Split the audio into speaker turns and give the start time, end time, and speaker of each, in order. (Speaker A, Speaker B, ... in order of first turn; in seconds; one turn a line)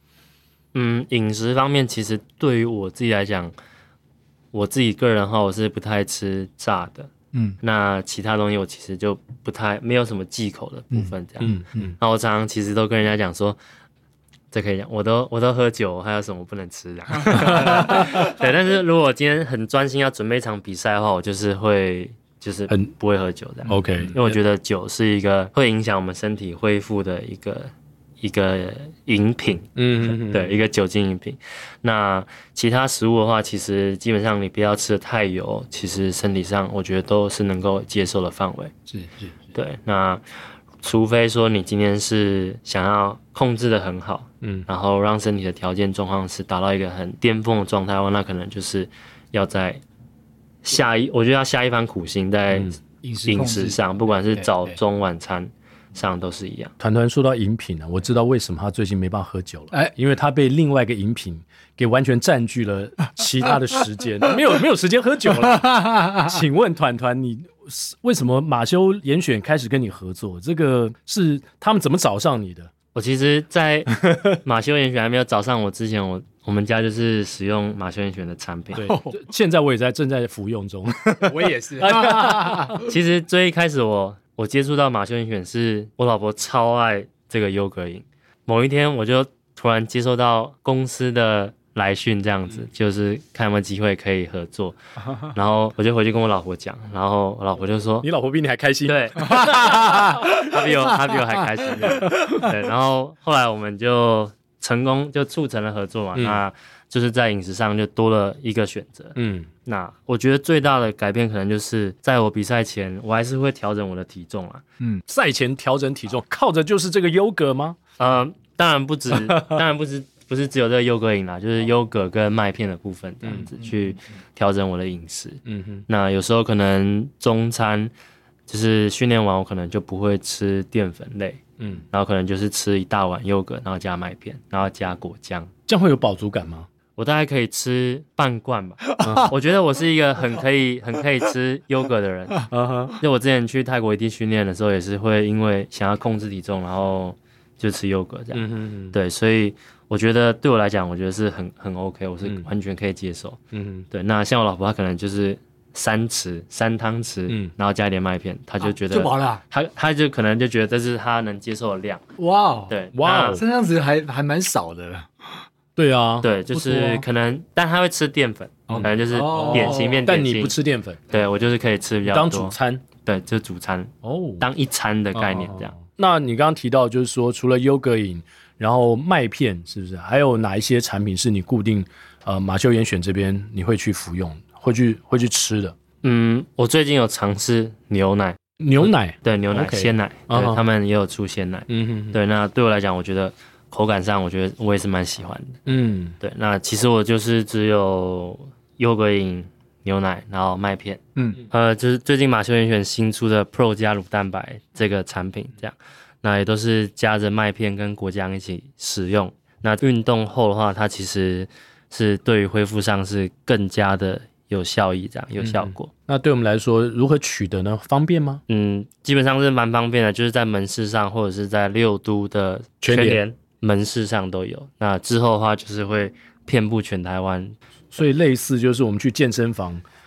Speaker A: 0.7-3.5
Speaker A: 4.5-7.1
Speaker B: 7.3-7.6
Speaker A: 7.6-13.6
Speaker C: 11.4-11.7
Speaker A: 14.5-27.7
Speaker C: 23.7-24.4
Speaker A: 28.2-38.7
Speaker C: 29.8-30.5
Speaker B: 38.9-39.3
Speaker A: 39.5-40.2
Speaker A: 40.8-49.8
Speaker A: 50.6-52.7
Speaker B: 53.0-53.8
Speaker A: 53.2-56.7
Speaker B: 54.3-54.8
Speaker C: 56.8-72.7
Speaker A: 72.9-78.9
Speaker C: 74.0-74.3
Speaker C: 78.7-82.8
Speaker B: 78.8-79.1
Speaker B: 81.2-82.8
Speaker A: 82.8-98.1
Speaker C: 98.0-100.7
Speaker A: 98.9-114.6
Speaker C: 102.0-102.5
Speaker C: 106.2-106.4
Speaker C: 109.2-109.5
Speaker C: 115.1-117.8
Speaker A: 118.0-127.9
Speaker C: 119.3-119.6
Speaker C: 125.5-125.8
Speaker A: 128.5-135.5
Speaker C: 135.7-136.7
Speaker A: 137.0-153.4
Speaker C: 139.0-139.3
Speaker C: 142.5-143.0
Speaker C: 148.3-148.9
Speaker C: 153.5-153.8
Speaker A: 153.9-162.0
Speaker B: 158.7-159.4
Speaker B: 162.2-162.7
Speaker A: 162.7-163.4
Speaker C: 162.9-163.4
Speaker B: 163.3-165.1
Speaker C: 165.8-167.0
Speaker A: 166.2-170.5
Speaker B: 168.7-170.0
Speaker C: 168.7-171.1
Speaker A: 171.1-175.7
Speaker C: 172.1-172.8
Speaker C: 174.0-174.4
Speaker C: 175.1-185.8
Speaker A: 186.0-195.6
Speaker C: 188.6-190.6
Speaker C: 191.7-192.2
Speaker C: 195.7-196.2
Speaker A: 196.2-201.0
Speaker A: 201.5-215.9
Speaker C: 215.4-218.4
Speaker A: 218.5-227.6
Speaker C: 222.8-223.2
Speaker C: 227.9-229.8